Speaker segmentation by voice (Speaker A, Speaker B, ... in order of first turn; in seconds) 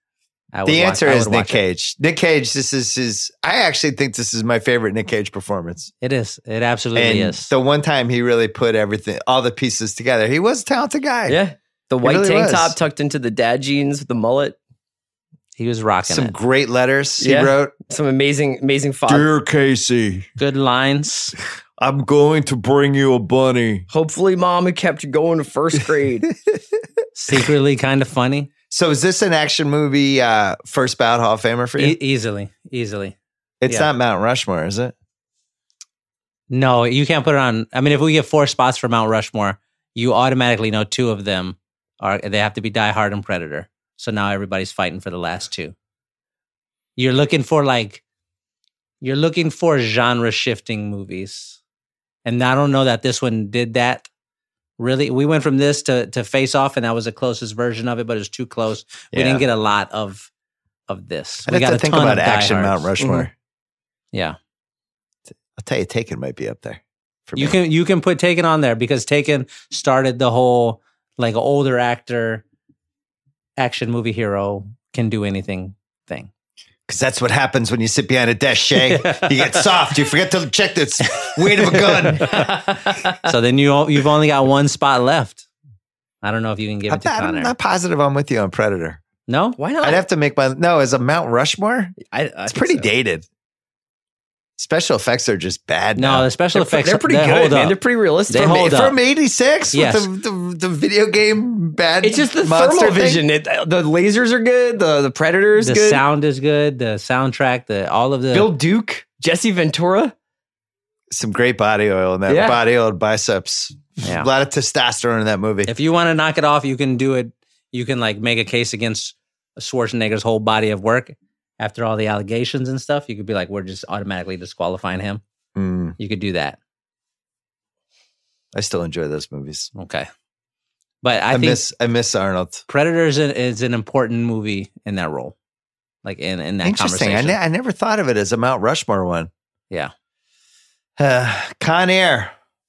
Speaker A: 0.5-1.6, 6.0-7.5, 15.6-16.3, 20.4-21.3, 27.1-28.5, 31.8-33.1, 36.5-45.7, 47.0-48.0, 49.0-51.6, 52.2-54.1, 54.8-60.3, 60.9-62.9, 67.3-72.4, 73.6-76.3, 78.8-79.6, 81.2-82.5, 83.2-85.4, 86.2-87.5, 89.3-89.6, 96.0-98.9, 99.7-100.1, 105.6-108.5, 114.0-114.3, 115.7-125.2, 126.0-126.6, 129.8-130.1, 131.0-131.6, 132.7-135.3, 136.0-137.3
Speaker B: 0.7-5.9, 6.9-11.4, 12.0-12.8, 16.1-17.7, 19.1-20.3, 21.8-23.9, 28.7-32.0, 33.6-34.9, 59.1-59.4, 61.5-63.3, 65.6-67.5, 76.9-82.3, 86.9-89.0, 89.8-92.0, 92.5-93.2, 94.6-96.3, 98.3-103.2, 111.1-115.7, 125.5-126.0, 128.5-129.7, 131.3-132.6, 136.6-139.3, 141.0-142.3
Speaker C: 11.3-14.6, 17.2-19.2, 23.9-26.3, 63.0-63.3, 82.2-83.3, 89.6-90.0, 92.0-92.9, 96.5-98.7, 102.0-106.0, 108.3-110.1, 112.3-112.6